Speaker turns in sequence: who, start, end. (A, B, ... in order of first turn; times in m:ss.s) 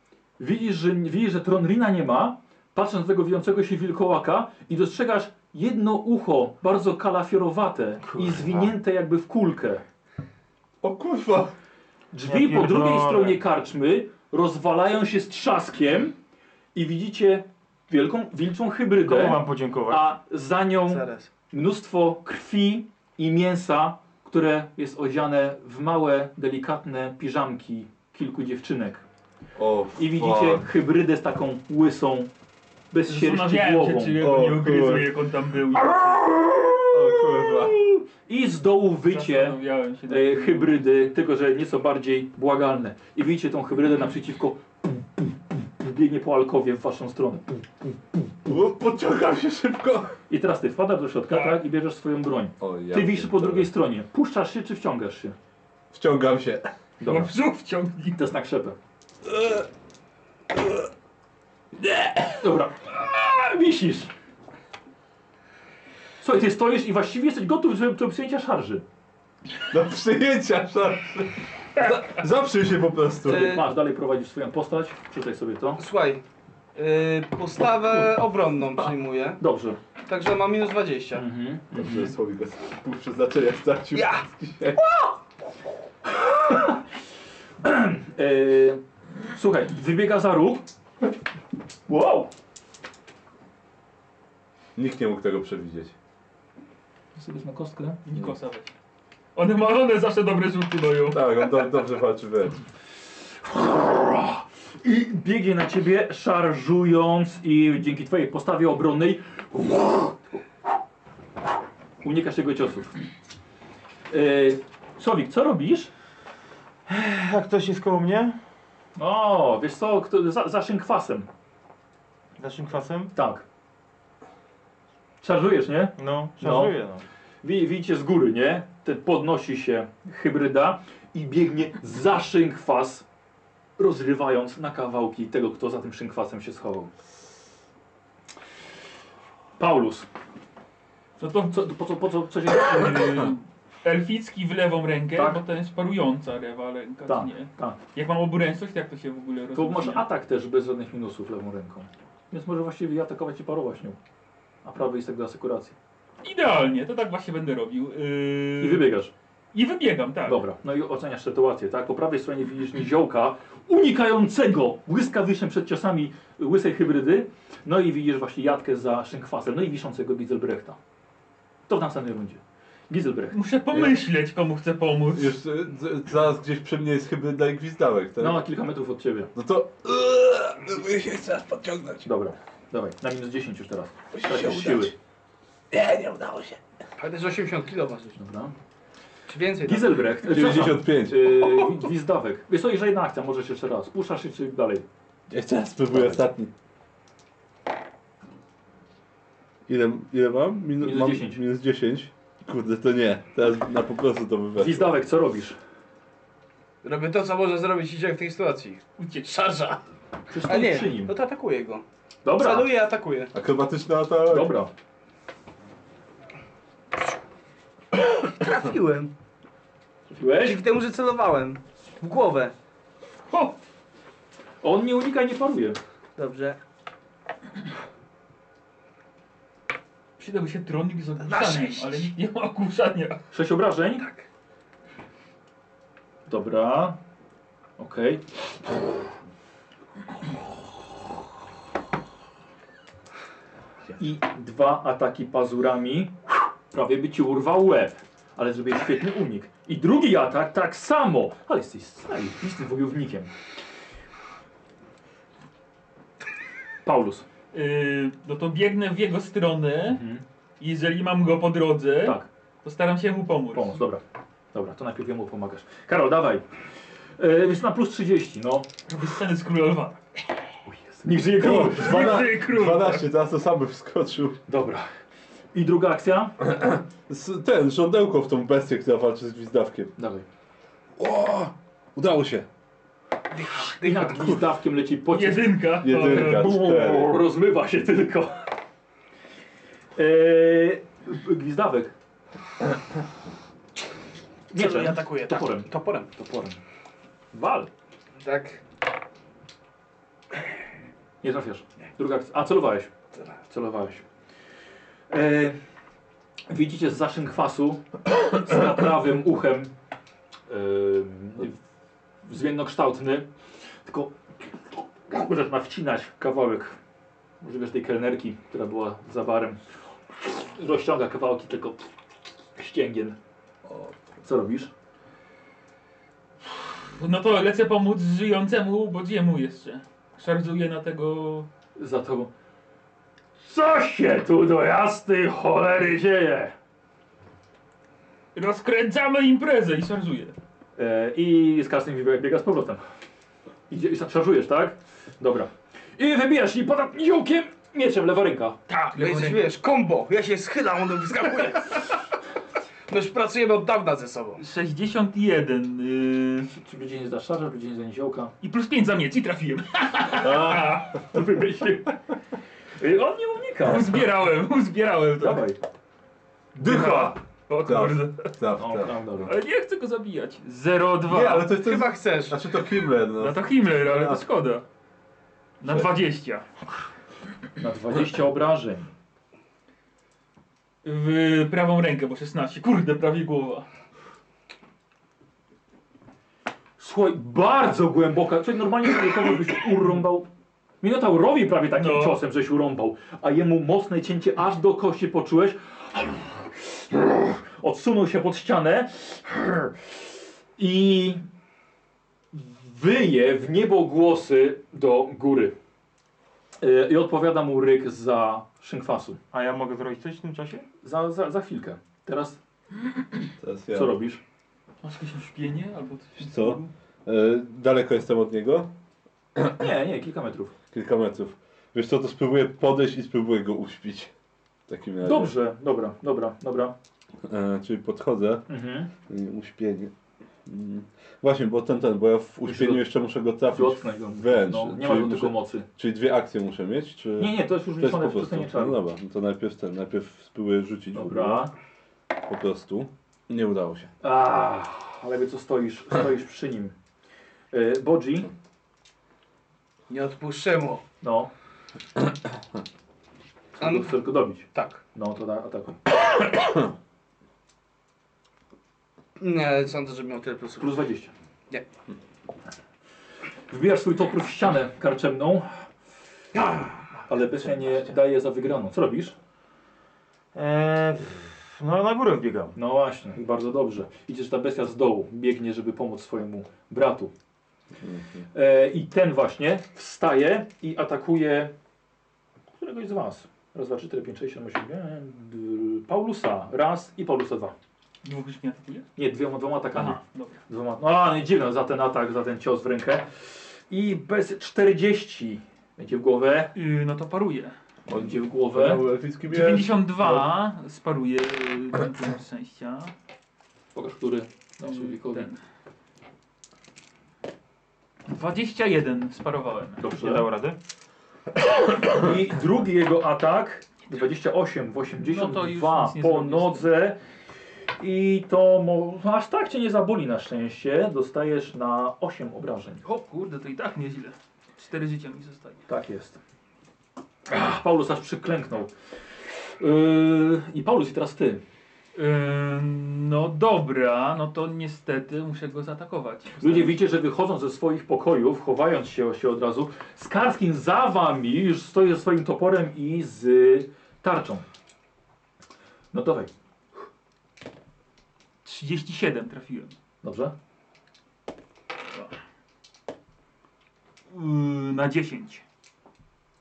0:00.4-0:09.8 A
0:08.1-0:08.7 B
0:10.8-0:11.5 C
0:12.1-0:16.2 A
0:12.2-0:13.4 B
0:16.7-0:29.0 A
0:19.0-0:20.1 B
0:20.9-0:21.3 D
0:29.6-0:30.6 C
0:30.0-0:32.3 A
0:32.9-0:34.2 A
0:33.1-0:36.2 E
0:34.2-0:35.1 C
0:36.2-0:47.9 A
0:36.9-0:37.8 C
0:39.1-0:40.8 E
0:48.4-0:50.2 C
0:50.3-0:55.4 A
0:51.3-0:51.6 E
0:52.6-0:53.7 C
0:55.9-0:56.7 C
0:57.0-0:57.3 A
0:57.0-0:58.2 E
0:58.1-0:58.8 A
0:59.2-0:59.7 C
1:00.5-1:00.9 C
1:01.8-1:02.4 C
1:02.4-1:04.1 A
1:06.2-1:08.8 A
1:09.7-1:13.6 C
1:13.2-1:15.8 A
1:13.3-1:13.7 D
1:15.8-1:16.2 D
1:16.7-1:19.4 D
1:19.4-1:19.8 A
1:20.1-1:21.2 D
1:21.1-1:22.1 A
1:21.7-1:24.8 C
1:23.9-1:24.2 D
1:26.2-1:26.8 A
1:27.6-1:28.8 A
1:29.3-1:30.6 A
1:31.9-1:32.3 A
1:34.7-1:35.9 C
1:37.2-1:38.0 A
1:38.0-1:38.7 E
1:39.3-1:41.3 E
1:41.1-1:42.6 C
1:43.4-1:50.2 A
1:52.0-1:53.0 A
1:54.1-1:55.9 A
1:56.9-1:58.4 B
1:59.0-2:01.3 A
2:02.4-2:03.1 B
2:03.1-2:03.4 A
2:05.2-2:06.8 A
2:06.0-2:07.0 B
2:07.4-2:13.0 A
2:13.8-2:16.9 A
2:19.6-2:20.1 A
2:21.2-2:21.6 E
2:21.4-2:23.3 A
2:22.6-2:30.0 E
2:25.1-2:25.4 A
2:27.0-2:27.8 A
2:29.5-2:34.0 A
2:34.6-2:35.8 A
2:36.2-2:38.9 E
2:38.6-2:39.1 A
2:39.5-2:40.4 E
2:40.2-2:50.8 A
2:51.7-2:53.4 A
2:53.3-2:55.4 E
2:53.7-2:54.0 C
2:55.1-2:58.4 C
2:58.2-2:59.3 A
2:59.3-3:02.1 C
3:02.0-3:04.9 A
3:04.1-3:04.9 C
3:05.7-3:06.6 C
3:07.0-3:08.2 D
3:08.2-3:08.5 A
3:09.3-3:10.0 D
3:09.6-3:14.8 A
3:10.2-3:11.5 C
3:15.3-3:16.5 C
3:15.9-3:16.2 A
3:19.7-3:24.9 C
3:20.8-3:21.4 A
3:24.6-3:25.6 A
3:26.8-3:29.8 D
3:29.0-3:29.3 E
3:30.3-3:31.1 A
3:30.4-3:31.8 D
3:32.2-3:32.7 A
3:32.4-3:33.3 D
3:33.3-3:34.5 C
3:34.2-3:34.7 A
3:38.0-3:39.1 D
3:40.1-3:40.6 A
3:40.4-3:42.5 D
3:43.3-3:43.5 E
3:44.6-3:45.8 A
3:46.2-3:46.6 D
3:50.2-3:53.2 E
3:51.2-3:52.0 D
3:53.3-3:54.0 A
3:56.3-3:57.0 A
3:57.8-3:58.2 A
4:04.0-4:06.2 A
4:06.7-4:13.3 A
4:16.8-4:17.2 A
4:17.5-4:20.0 E
4:19.9-4:20.2 A
4:20.6-4:23.8 E
4:22.0-4:22.3 A
4:23.5-4:26.4 A
4:27.2-4:28.7 A
4:28.9-4:30.0 E
4:30.6-4:32.3 A
4:31.4-4:34.4 C
4:31.4-4:33.0 E
4:34.5-4:34.9 A
4:35.5-4:36.4 A
4:36.4-4:39.9 C
4:40.0-4:40.2 A
4:41.0-4:42.5 C
4:43.3-4:44.4 D
4:43.8-4:48.4 A
4:45.1-4:46.5 E
4:45.8-4:47.2 C
4:50.0-4:51.9 A
4:54.5-4:56.6 A
4:54.5-4:56.1 D
4:57.3-4:57.7 A
4:58.2-4:58.6 D
5:01.2-5:02.9 A
5:03.5-5:04.0 A
5:05.1-5:05.6 A
5:06.5-5:09.7 A
5:10.5-5:11.6 A
5:12.2-5:13.3 A
5:13.8-5:16.8 A
5:17.4-5:19.6 A
5:20.2-5:21.9 A
5:22.6-5:23.2 A
5:23.6-5:24.0 C
5:24.2-5:24.7 A
5:27.0-5:31.5 E
5:31.8-5:32.3 A
5:33.4-5:36.5 A
5:38.3-5:40.3 E
5:40.8-5:42.8 A
5:43.7-5:48.6 A
5:48.7-5:49.5 E
5:49.0-5:51.9 D
5:52.9-5:54.4 D
5:54.4-5:56.5 E
5:56.5-5:58.3 A
5:58.4-6:00.8 E
6:00.2-6:01.0 C
6:00.4-6:01.9 A
6:02.8-6:04.1 A
6:03.6-6:05.5 E
6:05.2-6:05.6 A
6:06.6-6:07.1 A
6:06.6-6:08.3 E
6:06.6-6:07.1 C
6:07.6-6:09.0 C
6:08.6-6:09.3 A
6:09.2-6:11.5 E
6:11.1-6:14.2 C
6:11.4-6:12.4 D
6:13.2-6:14.6 E
6:15.6-6:16.4 E
6:15.6-6:15.9 C
6:17.6-6:18.9 A
6:20.8-6:23.6 E
6:26.8-6:30.3 A
6:30.8-6:39.7 A
6:31.8-6:32.2 E
6:40.6-6:41.2 A
6:42.3-6:45.5 A
6:46.6-6:49.2 A
6:49.3-6:50.6 B
6:50.8-6:52.4 A
6:53.4-6:54.0 C
6:53.7-6:54.2 A
6:54.8-6:56.7 E
6:56.2-6:58.7 C
6:59.6-7:00.5 A
7:00.7-7:04.1 C
7:04.7-7:05.3 C
7:05.0-7:06.7 A
7:07.2-7:08.4 C
7:08.5-7:08.9 A
7:09.1-7:09.9 C
7:10.4-7:21.5 C
7:12.4-7:12.8 A
7:13.5-7:15.7 A
7:17.2-7:18.8 A
7:20.9-7:21.5 A
7:22.2-7:23.9 C
7:24.0-7:26.7 A
7:27.5-7:28.3 A
7:29.9-7:30.8 D
7:31.0-7:31.3 A
7:33.6-7:35.8 A
7:33.6-7:34.0 D
7:34.5-7:34.8 D
7:39.2-7:40.8 D
7:40.6-7:41.1 A
7:43.5-7:45.5 A
7:47.0-7:49.1 A
7:50.3-7:52.5 B
7:52.6-7:57.1 A
7:57.8-7:58.2 C
7:58.3-8:01.5 A
8:02.6-8:07.5 A
8:08.0-8:08.9 E
8:09.0-8:16.5 A
8:09.7-8:10.4 E
8:16.5-8:17.5 E
8:17.9-8:20.3 C
8:17.9-8:18.8 A
8:19.3-8:22.9 E
8:23.7-8:25.3 A
8:24.6-8:25.4 E
8:28.1-8:29.8 E
8:29.8-8:30.3 A
8:29.9-8:30.6 B
8:31.8-8:37.0 A
8:35.0-8:36.7 E
8:37.8-8:42.8 A
8:42.8-8:45.6 E
8:45.7-8:46.2 A
8:47.3-8:48.7 A
8:49.6-8:51.4 A
8:51.9-8:56.8 E
8:56.4-9:04.4 A
9:05.9-9:06.3 A
9:08.4-9:09.8 E
9:10.0-9:10.3 A
9:14.1-9:15.4 E